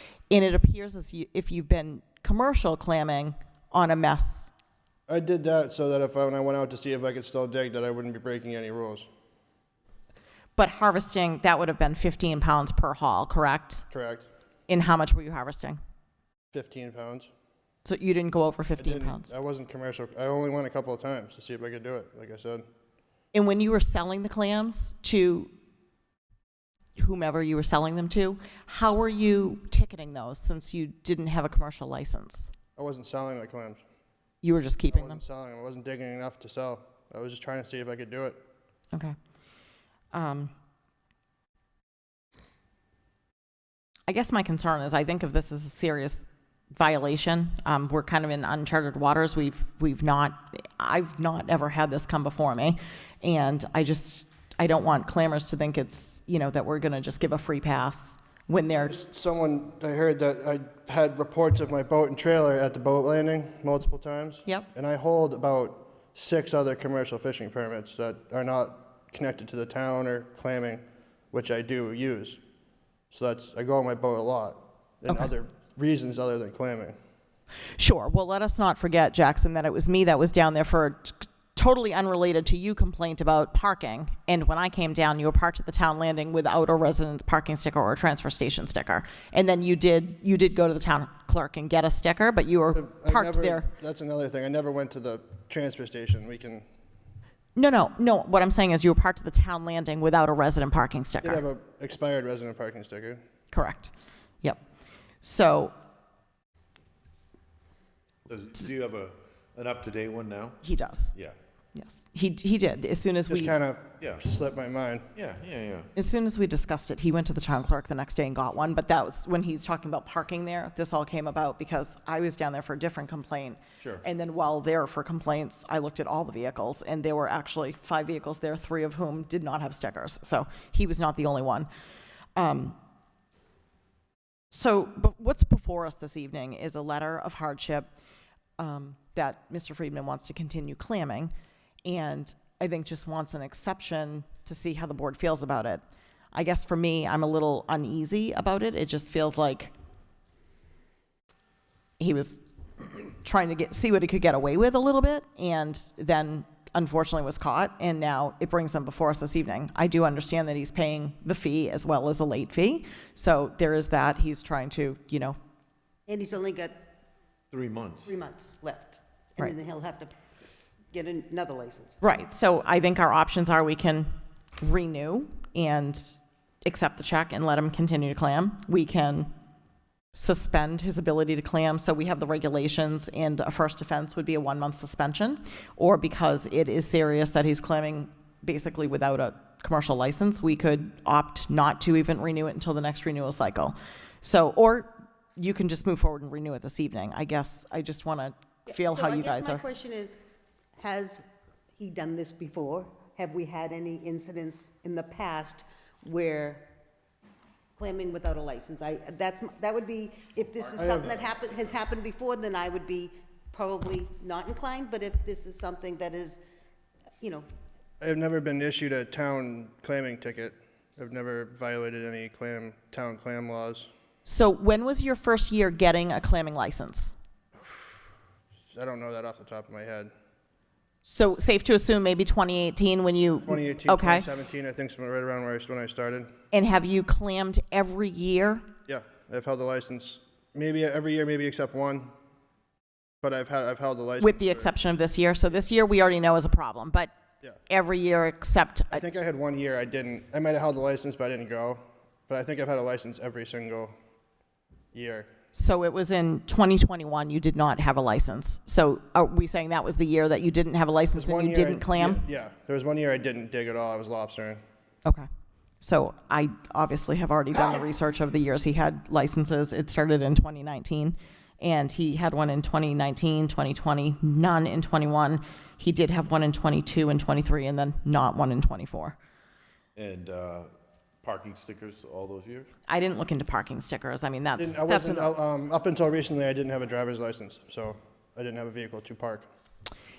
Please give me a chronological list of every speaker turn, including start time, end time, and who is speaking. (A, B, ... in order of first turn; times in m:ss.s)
0:00.3-0:04.5 A
0:05.1-0:09.1 B
0:10.6-0:13.8 A
0:13.9-0:14.3 B
0:14.7-0:15.8 A
0:16.5-0:17.3 B
0:17.8-0:19.3 A
0:18.8-0:22.7 B
0:23.3-0:25.5 A
0:27.0-0:32.5 A
0:32.8-0:33.8 B
0:34.4-0:35.2 A
0:34.9-0:38.4 B
0:40.1-0:40.5 A
0:44.1-0:59.0 A
0:58.8-1:12.4 B
1:13.1-1:17.0 B
1:17.8-1:33.7 A
1:32.7-1:36.6 B
1:37.6-1:41.4 A
1:41.2-1:43.2 B
1:43.5-1:44.6 A
1:45.2-1:45.7 A
1:48.3-1:50.6 C
1:50.6-1:51.1 A
1:51.7-1:53.5 A
1:53.3-1:55.1 B
1:55.2-1:55.9 C
1:55.9-2:11.7 A
2:12.4-2:12.8 A
2:14.5-2:17.9 A
2:18.6-2:21.3 A
2:21.8-2:29.7 A
2:32.0-2:45.4 A
2:46.1-2:46.8 D
2:47.5-2:48.1 C
2:48.0-2:50.1 D
2:50.9-2:52.0 D
2:52.0-2:54.1 A
2:54.6-2:59.3 A
3:00.1-3:19.6 A
3:18.7-3:20.2 D
3:20.8-3:21.2 D
3:21.8-3:26.7 D
3:27.8-3:36.4 D
3:30.8-3:31.1 B
3:37.2-3:37.4 D
3:38.0-3:43.9 B
3:44.2-3:47.2 A
3:47.6-3:47.9 B
3:48.7-3:50.1 B
3:51.0-3:54.2 A
3:53.5-3:56.3 B
3:56.5-3:58.6 A
3:58.8-4:02.1 B
4:03.2-4:04.7 B
4:04.2-4:07.1 A
4:07.7-4:09.0 A
4:08.9-4:13.9 B
4:14.9-4:15.3 B
4:15.5-4:22.2 A
4:21.1-4:24.6 B
4:25.8-4:39.2 A
4:40.0-4:40.7 C
4:41.2-4:42.7 C
4:42.9-4:45.3 A
4:44.6-4:49.5 B